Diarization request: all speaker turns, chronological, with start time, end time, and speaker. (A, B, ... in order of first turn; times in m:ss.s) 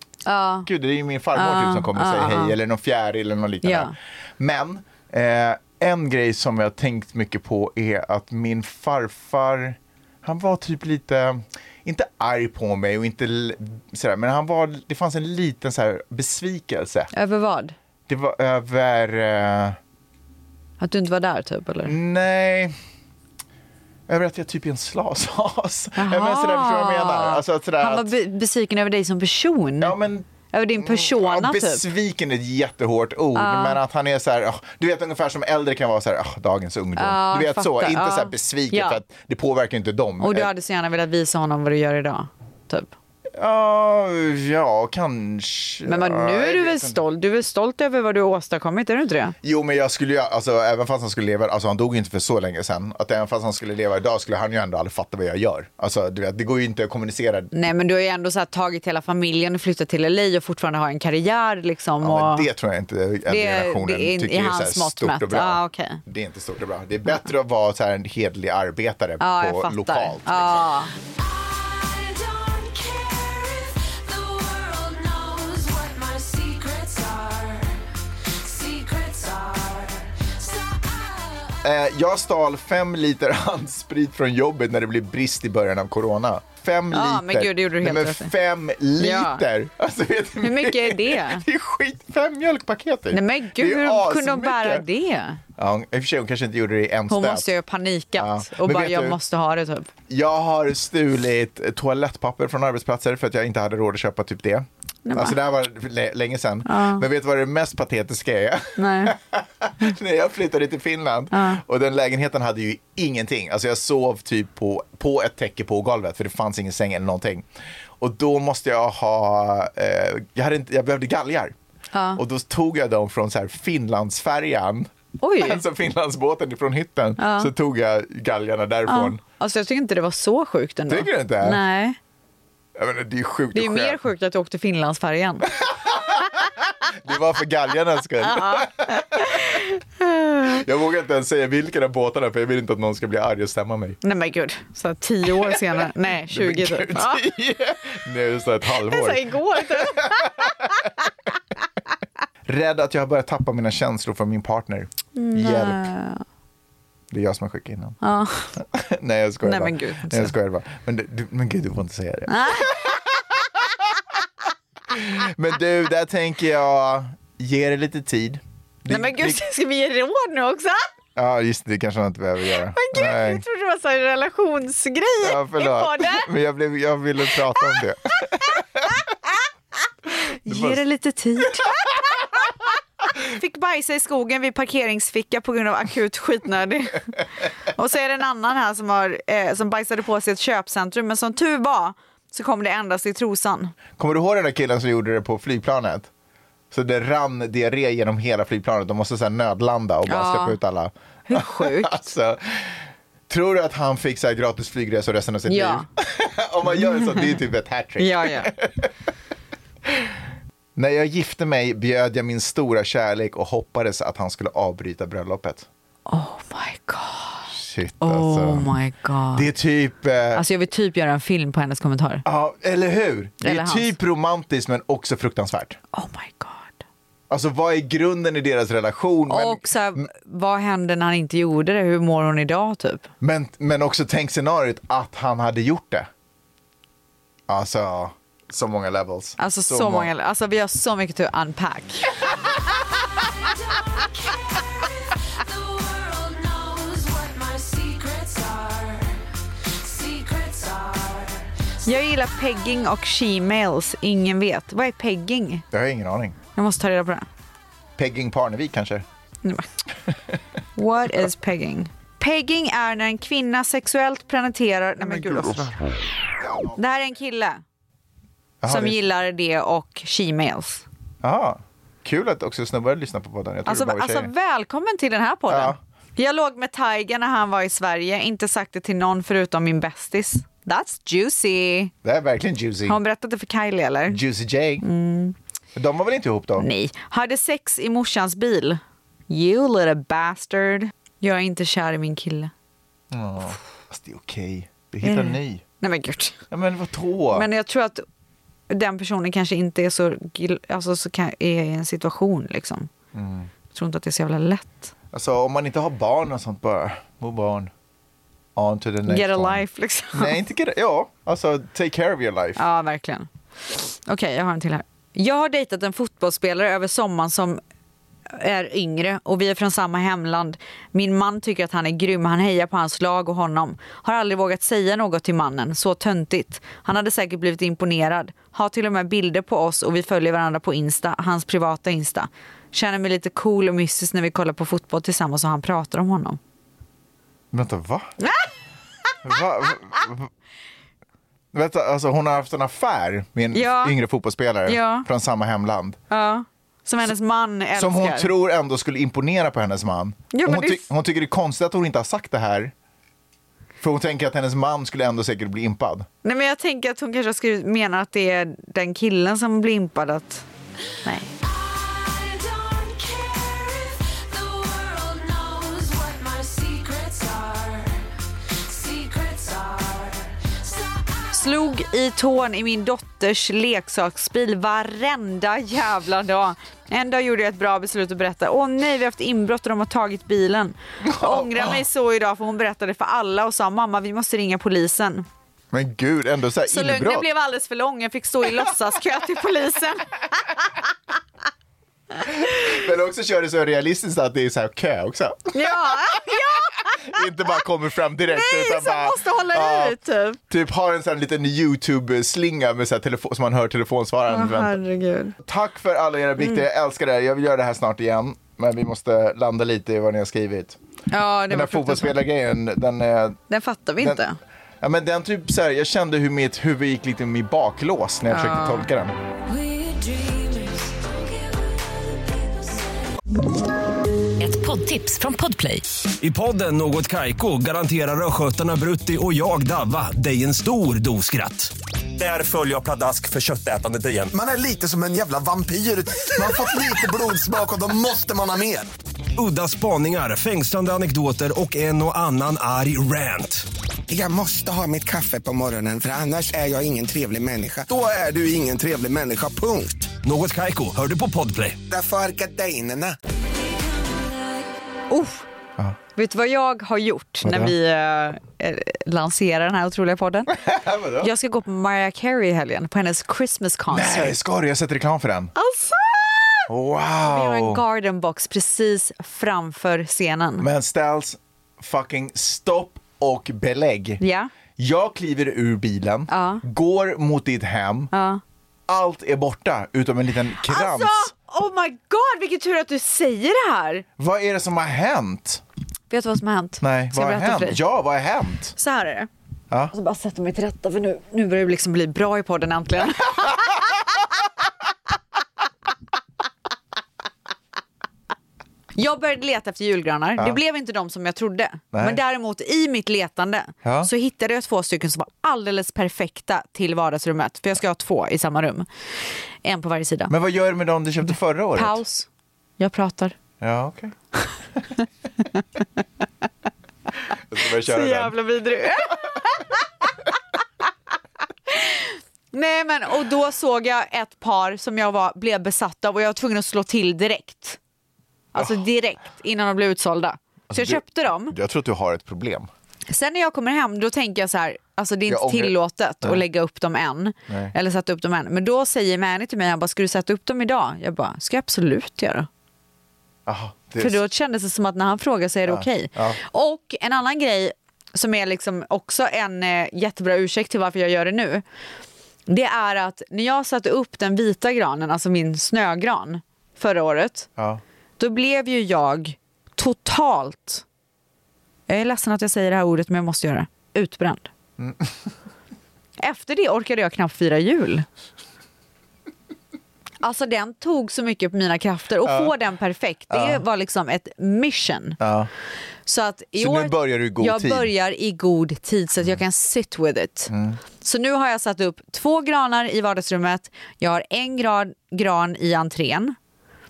0:00.2-0:00.7 A
0:00.6-0:17.1 B
0:01.3-0:02.6 A
0:03.6-0:03.9 A
0:17.1-0:17.8 A
0:18.1-0:19.8 B
0:20.8-0:21.9 A
0:21.8-0:22.7 B
0:24.1-0:28.1 B
0:26.0-0:29.9 A
0:29.8-0:40.5 B
0:30.5-0:31.8 A
0:33.3-0:33.8 A
0:37.0-0:39.0 A
0:40.2-0:42.9 A
0:43.4-0:47.0 B
0:45.8-0:49.4 A
0:49.4-0:57.5 B
0:57.5-1:02.5 A
1:02.0-1:10.7 B
1:03.3-1:06.0 A
1:09.2-1:10.9 A
1:11.2-1:17.7 C
1:18.3-1:21.1 C
1:21.6-1:34.8 B
1:26.9-1:28.3 A
1:29.0-1:29.4 A
1:30.4-1:31.4 A
1:33.1-1:35.4 A
1:35.6-1:37.5 B
1:37.1-1:39.9 A
1:38.2-1:39.2 B
1:40.1-1:57.4 B
1:45.0-1:45.4 A
1:46.6-1:47.0 A
1:48.8-1:49.1 A
1:51.3-1:51.6 A
1:58.0-2:01.5 B
2:01.9-2:02.2 A
2:02.2-2:09.2 B
2:05.2-2:05.6 A
2:07.2-2:07.5 A
2:08.9-2:12.0 A
2:10.9-2:11.6 B
2:12.8-2:14.0 B
2:13.5-2:15.5 A
2:16.8-2:19.6 B
2:18.2-2:20.6 A
2:20.4-2:24.0 B
2:24.0-2:27.2 A
2:26.3-2:30.9 B
2:28.7-2:30.7 A
2:32.5-2:35.8 B
2:35.1-2:36.2 A
2:37.1-2:38.0 B
2:38.0-2:38.5 A
2:38.5-2:43.6 B
2:39.4-2:40.3 A
2:42.3-2:42.9 A
2:44.9-2:49.4 B
2:48.9-2:50.9 A
2:51.2-2:53.4 B
2:52.5-2:56.3 A
2:55.2-2:59.0 B
2:57.3-2:58.3 A
3:00.2-3:02.7 A
3:00.4-3:00.8 B
3:03.2-3:13.7 A
3:14.0-3:16.1 B
3:16.7-3:28.9 B
3:20.0-3:20.6 A
3:21.3-3:22.1 A
3:25.5-3:25.8 A
3:26.7-3:27.4 A
3:28.0-3:28.5 A
3:30.8-3:35.7 B
3:36.1-3:37.5 A
3:37.5-3:38.7 B
3:38.0-3:39.5 A
3:39.3-3:40.4 B
3:40.3-3:42.2 A
3:42.2-3:45.8 B
3:43.4-3:43.9 A
3:45.9-3:46.8 A
3:47.3-3:50.1 B
3:49.3-3:53.1 A
3:53.2-3:56.1 B
3:57.5-4:00.1 B
3:59.4-4:02.2 A
4:05.4-4:09.1 C
4:09.8-4:11.4 C
4:11.8-4:15.6 A
4:15.7-4:16.4 B
4:16.6-4:17.3 A
4:18.0-4:19.0 B
4:19.4-4:19.7 A
4:20.8-4:25.7 A
4:25.1-4:25.8 B
4:26.4-4:26.8 B
4:26.7-4:27.6 A
4:28.6-4:29.0 B
4:28.6-4:30.8 A
4:31.2-4:34.3 B
4:33.6-4:41.9 A
4:35.5-4:35.8 B
4:42.0-4:43.0 B
4:42.9-4:44.2 A
4:44.1-4:44.8 B
4:44.8-4:45.4 A
4:45.8-4:46.7 B
4:46.6-4:52.5 A
4:53.1-4:55.6 B
4:55.0-4:56.4 A
4:56.5-4:57.5 B
4:57.3-4:58.0 A
4:58.7-5:02.9 A
5:03.1-5:03.5 B
5:03.7-5:04.9 A
5:05.1-5:07.7 B
5:08.6-5:12.6 B
5:09.0-5:10.4 A
5:12.6-5:17.6 A
5:18.3-5:36.4 A
5:37.5-5:38.1 B
5:38.2-5:38.5 A
5:39.2-5:40.3 B
5:41.5-5:46.0 B
5:43.5-5:43.9 A
5:44.6-5:45.1 A
5:46.1-5:48.3 A
5:47.7-5:52.7 B
5:50.3-5:50.8 A
5:53.8-5:56.1 B
5:56.2-6:00.4 A
6:01.0-6:01.3 A
6:01.4-6:07.9 C
6:08.7-6:10.3 C
6:11.3-6:25.3 A
6:21.0-6:21.8 B
6:25.7-6:27.3 B
6:26.7-6:30.7 A
6:32.2-6:36.2 B
6:35.5-6:37.5 A
6:36.9-6:40.0 B
6:38.2-6:40.4 A
6:40.5-6:44.8 B
6:44.3-6:45.3 A
6:45.4-6:50.8 B
6:46.4-6:46.6 A
6:51.1-6:52.2 A
6:51.5-6:53.4 B
6:53.5-6:54.4 A
6:54.8-6:59.1 B
6:58.3-6:58.9 A
6:59.5-7:03.0 C
7:04.4-7:05.8 C
7:06.2-7:14.3 D
7:14.3-7:18.9 E
7:19.4-7:23.7 D
7:24.1-7:30.1 E
7:30.2-7:31.8 D
7:31.9-7:33.2 E
7:33.5-7:34.6 C
7:35.1-7:35.5 A
7:36.2-7:40.6 A
7:37.4-7:37.7 B
7:40.5-7:41.3 B
7:41.2-7:44.4 A
7:43.9-7:45.5 B
7:45.5-7:46.7 A
7:46.7-7:47.8 B
7:47.2-7:50.7 A
7:50.6-7:54.2 B
7:54.2-7:54.5 A
7:54.8-7:58.1 B
7:56.3-7:56.6 A
7:58.1-7:58.4 A
7:58.9-8:01.3 B
8:00.6-8:04.0 A
8:04.2-8:05.6 B
8:06.1-8:07.8 A
8:06.8-8:08.7 B
8:08.8-8:09.3 A
8:09.9-8:14.2 A
8:18.9-8:30.3 A
8:21.9-8:22.2 B
8:23.8-8:24.1 B
8:30.3-8:32.0 B
8:31.8-8:32.3 A
8:32.8-8:33.4 A
8:33.6-8:34.1 B
8:37.3-8:38.4 B
8:37.6-8:39.8 A
8:41.7-8:47.8 A
8:48.5-8:51.5 A
8:50.7-8:52.7 B
8:53.1-9:02.5 A
8:55.3-8:56.4 B
8:57.5-8:57.7 B
9:03.4-9:04.2 B
9:04.0-9:11.6 A
9:05.6-9:06.4 B
9:12.5-9:17.5 A
9:18.2-9:20.8 A
9:21.9-9:24.5 A
9:24.8-9:25.2 B
9:26.2-9:28.0 A
9:30.2-9:35.2 A
9:32.2-9:32.5 B
9:33.3-9:33.6 B
9:35.2-9:35.5 B
9:36.0-9:46.4 A
9:36.6-9:37.9 B
9:40.5-9:40.8 B